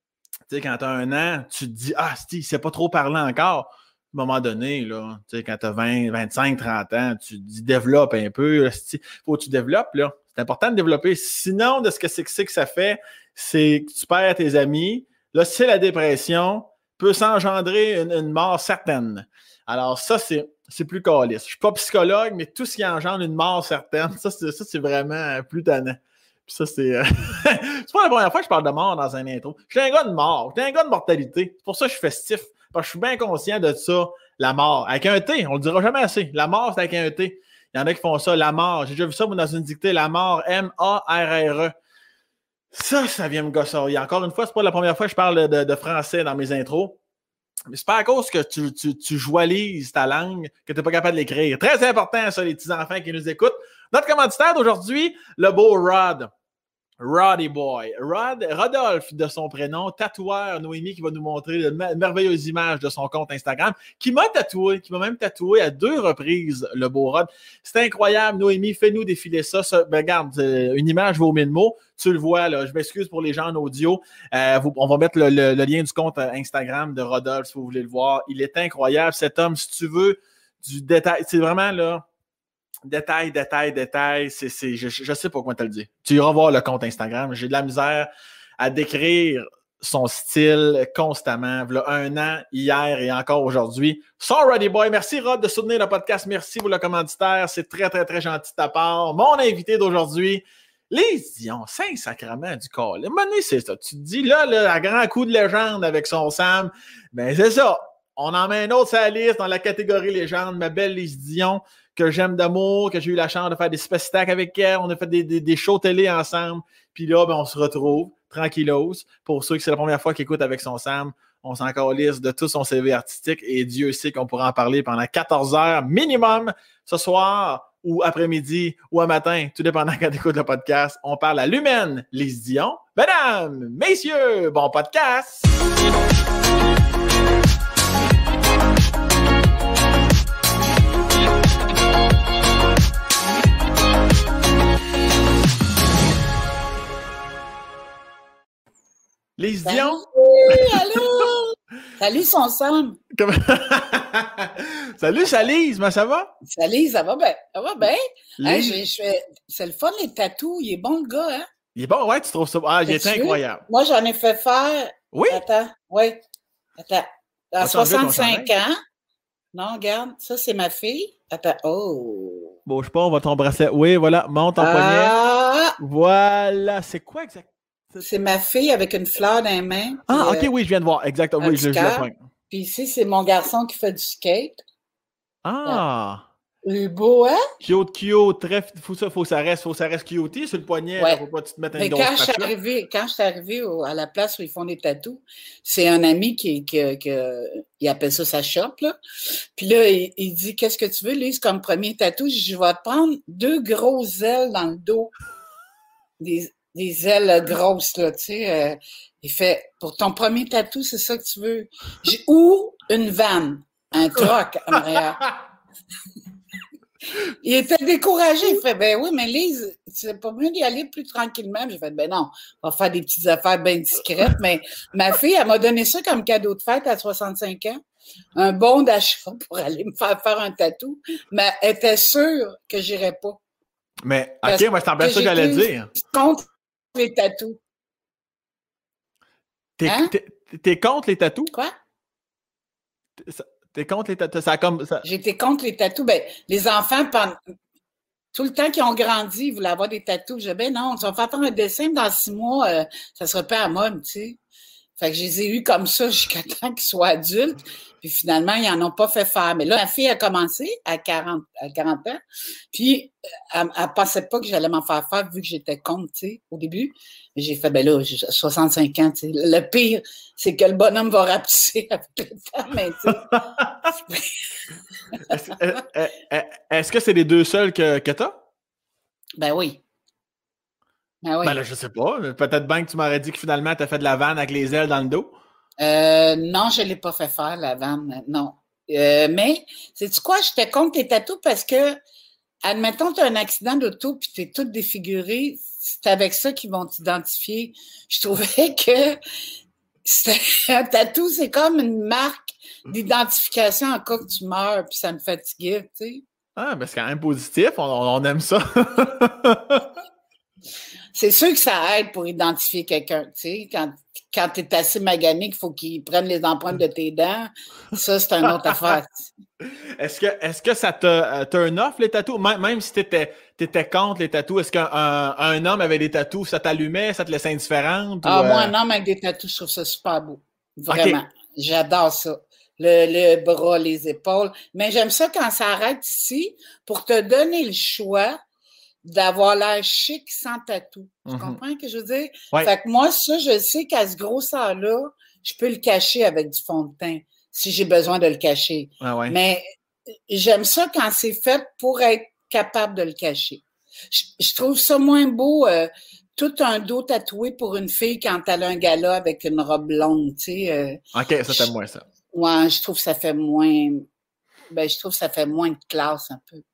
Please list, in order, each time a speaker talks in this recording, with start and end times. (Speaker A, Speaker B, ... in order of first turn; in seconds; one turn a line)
Speaker A: 0.5-41.7
Speaker A: 42.7-47.0
Speaker A: 47.7-56.3
Speaker A: 57.0-82.0
Speaker A: 82.8-135.5
Speaker A: 149.4-151.2
Speaker B: 149.7-153.0
Speaker A: 153.1-156.3
Speaker B: 156.4-161.4
Speaker A: 158.4-158.8
Speaker A: 161.7-163.6
Speaker B: 162.9-166.2
Speaker A: 165.1-165.4
Speaker B: 166.8-168.8
Speaker A: 167.6-168.5
Speaker B: 169.5-172.5
Speaker A: 172.7-175.1
Speaker B: 174.6-175.8
Speaker A: 175.8-178.0
Speaker B: 178.0-180.5
Speaker A: 180.1-182.2
Speaker B: 181.4-184.6
Speaker A: 185.4-186.2
Speaker B: 186.6-187.4
Speaker A: 187.6-192.5
Speaker B: 191.8-199.0
Speaker B: 199.6-205.1
Speaker B: 206.2-215.2
Speaker B: 217.4-227.8
Speaker B: 228.3-233.4
Speaker A: 234.1-235.9
Speaker B: 234.4-237.6
Speaker A: 239.8-241.5
Speaker B: 239.8-240.1
Speaker A: 243.2-245.0
Speaker B: 245.0-247.3
Speaker B: 248.3-254.4
Speaker B: 255.0-262.2
Speaker B: 262.7-273.3
Speaker A: 273.1-273.9
Speaker B: 273.9-274.6
Speaker A: 275.2-278.4
Speaker B: 279.4-279.8
Speaker B: 281.2-281.6
Speaker A: 281.4-285.3
Speaker B: 285.8-292.0
Speaker B: 292.6-299.2
Speaker B: 300.0-306.2
Speaker A: 306.6-309.9
Speaker B: 311.1-319.3
Speaker A: 320.0-328.7
Speaker B: 328.2-338.4
Speaker A: 330.9-331.2
Speaker B: 339.0-349.6
Speaker A: 341.2-341.6
Speaker A: 349.0-349.4
Speaker B: 350.3-361.7
Speaker A: 361.1-362.1
Speaker B: 362.3-364.1
Speaker B: 364.7-366.6